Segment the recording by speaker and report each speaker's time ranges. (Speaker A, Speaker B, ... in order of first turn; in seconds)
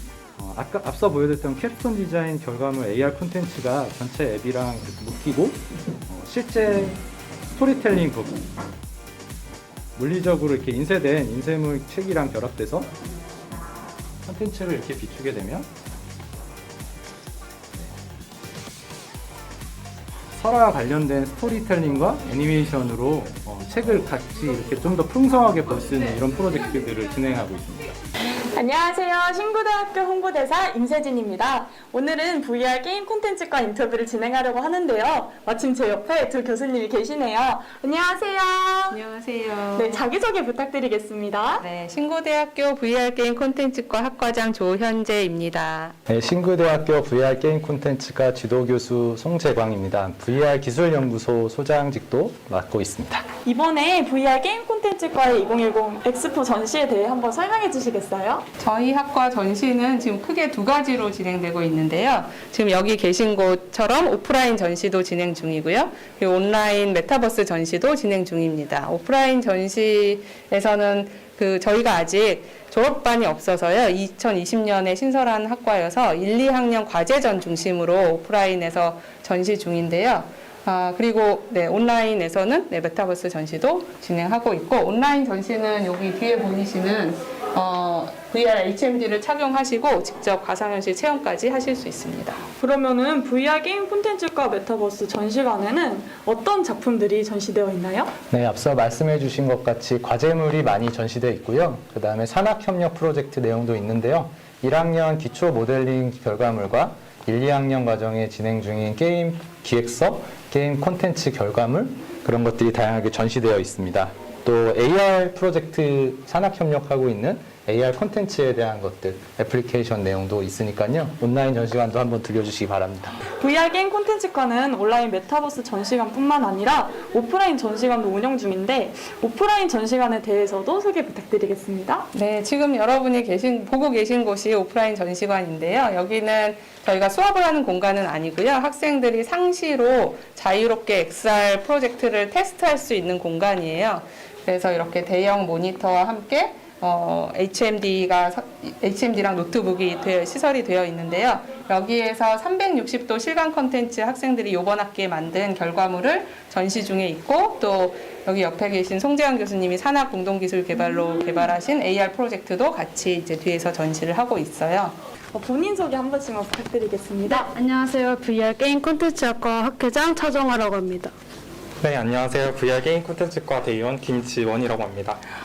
Speaker A: 0.4-7.0, 7.5-8.4, 9.9-12.9, 14.2-15.7, 20.4-27.9, 46.1-53.3, 98.3-123.2
Speaker B: 28.4-39.0, 39.8-41.6, 53.4-58.4, 92.6-98.1, 123.4-132.1, 165.3-167.5
Speaker C: 38.9-40.0, 41.6-45.9, 58.6-92.4, 132.1-165.0
Speaker D: 167.3-171.1
Speaker E: 171.8-175.2